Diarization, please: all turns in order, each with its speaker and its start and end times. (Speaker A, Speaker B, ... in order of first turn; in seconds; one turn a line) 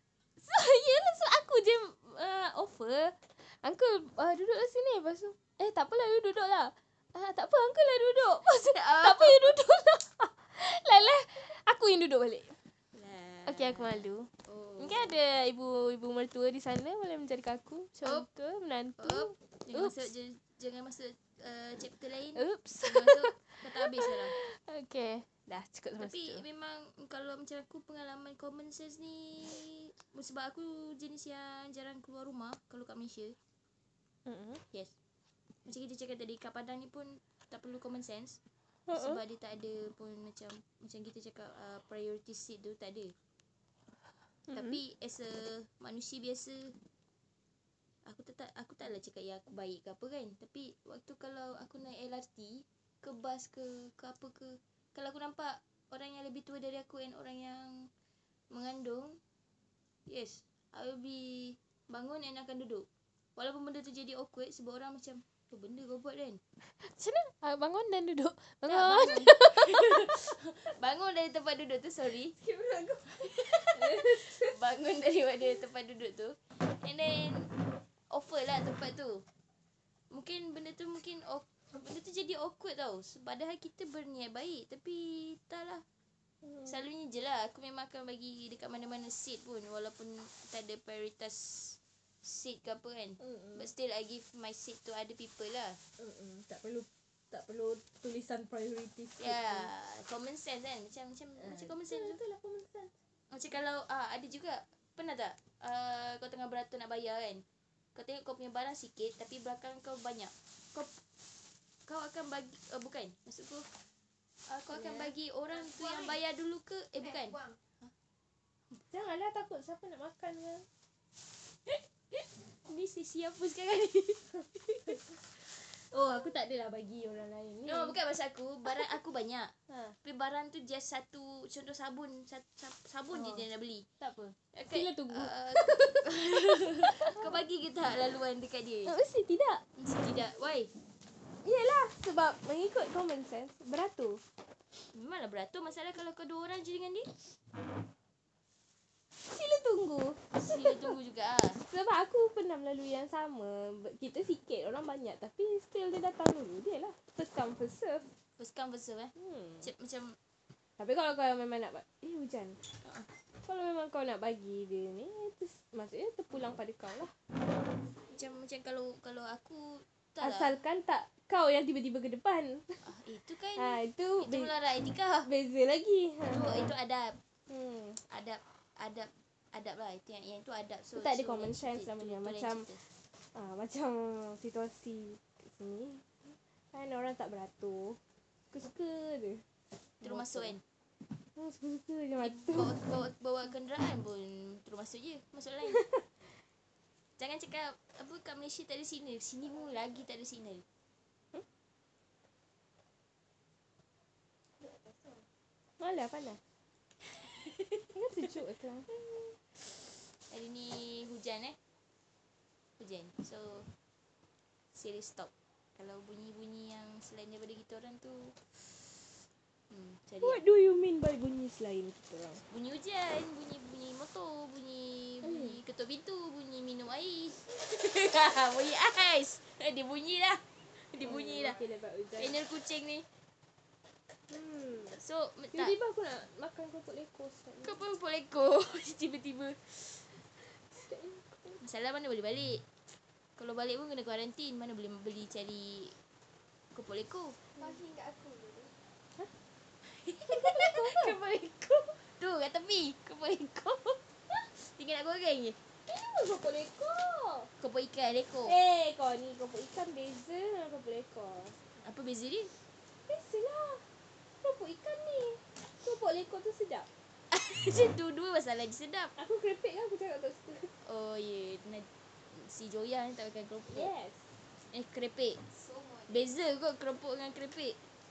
Speaker A: 0.4-12.6
Speaker B: 8.4-9.6
Speaker B: 12.9-15.2
Speaker A: 13.4-20.1
Speaker B: 19.0-24.3
Speaker A: 22.3-26.4
Speaker B: 26.0-33.4
Speaker A: 34.3-34.6
Speaker B: 35.6-38.4
Speaker A: 38.9-39.2
Speaker B: 38.9-43.1
Speaker A: 44.5-44.8
Speaker B: 44.5-46.8
Speaker B: 48.0-57.9
Speaker B: 58.5-59.2
Speaker B: 60.1-66.4
Speaker A: 66.8-70.1
Speaker B: 68.7-72.3
Speaker A: 72.4-74.5
Speaker B: 73.2-77.5
Speaker B: 78.1-79.2
Speaker B: 80.1-85.8
Speaker B: 86.6-95.8
Speaker A: 93.2-93.7
Speaker A: 96.0-99.7
Speaker B: 99.2-102.2
Speaker A: 101.4-102.9
Speaker B: 103.3-107.4
Speaker B: 107.9-110.9
Speaker B: 111.9-113.7
Speaker B: 114.5-117.9
Speaker C: 114.7-116.2
Speaker C: 117.0-117.6
Speaker A: 118.9-120.7
Speaker B: 122.6-125.1
Speaker A: 125.9-128.0
Speaker B: 127.7-129.5
Speaker A: 129.7-129.9
Speaker B: 130.0-133.9
Speaker A: 133.1-133.4
Speaker A: 134.0-136.1
Speaker B: 134.5-138.9
Speaker A: 136.8-137.3
Speaker A: 138.8-139.6
Speaker B: 139.8-140.7
Speaker A: 141.4-144.2
Speaker B: 144.9-147.2
Speaker A: 149.2-150.9
Speaker B: 150.3-151.6
Speaker A: 151.7-158.1
Speaker B: 158.4-160.2
Speaker A: 159.2-159.7
Speaker A: 160.8-162.6
Speaker B: 162.8-163.1
Speaker A: 163.4-167.1
Speaker B: 168.1-170.6
Speaker A: 170.2-172.8
Speaker B: 172.8-175.3
Speaker A: 173.6-174.5
Speaker A: 175.2-176.7
Speaker B: 176.3-177.2
Speaker A: 177.5-178.0
Speaker B: 178.1-182.8
Speaker A: 180.9-182.6
Speaker A: 183.3-188.0
Speaker A: 188.5-189.4
Speaker A: 190.0-190.5
Speaker B: 190.0-190.6
Speaker A: 191.3-192.8
Speaker B: 192.2-195.8
Speaker A: 195.7-196.0
Speaker B: 197.2-200.6
Speaker C: 204.6-205.2
Speaker A: 205.8-206.4
Speaker B: 207.3-207.8
Speaker A: 207.9-208.9
Speaker B: 210.3-211.6
Speaker B: 212.8-213.7
Speaker B: 214.7-218.4
Speaker B: 219.7-220.4
Speaker A: 220.2-222.4
Speaker B: 222.5-231.6
Speaker A: 225.2-225.6
Speaker A: 231.0-232.3
Speaker B: 232.2-233.1
Speaker A: 234.3-235.0
Speaker B: 235.0-235.7
Speaker A: 235.5-237.8
Speaker B: 237.6-240.1
Speaker A: 240.4-241.6
Speaker B: 241.6-242.6
Speaker B: 243.4-245.9
Speaker B: 246.7-247.4
Speaker C: 247.6-248.7
Speaker B: 249.8-255.6
Speaker A: 250.3-251.2
Speaker A: 255.9-257.5
Speaker B: 257.6-258.5
Speaker A: 258.4-261.6
Speaker B: 261.8-262.5
Speaker A: 263.1-263.8
Speaker A: 264.4-266.9
Speaker B: 267.3-269.1
Speaker A: 269.2-270.7
Speaker B: 270.8-273.9
Speaker A: 273.7-274.2
Speaker B: 274.7-275.4
Speaker C: 275.5-276.3
Speaker B: 276.1-277.8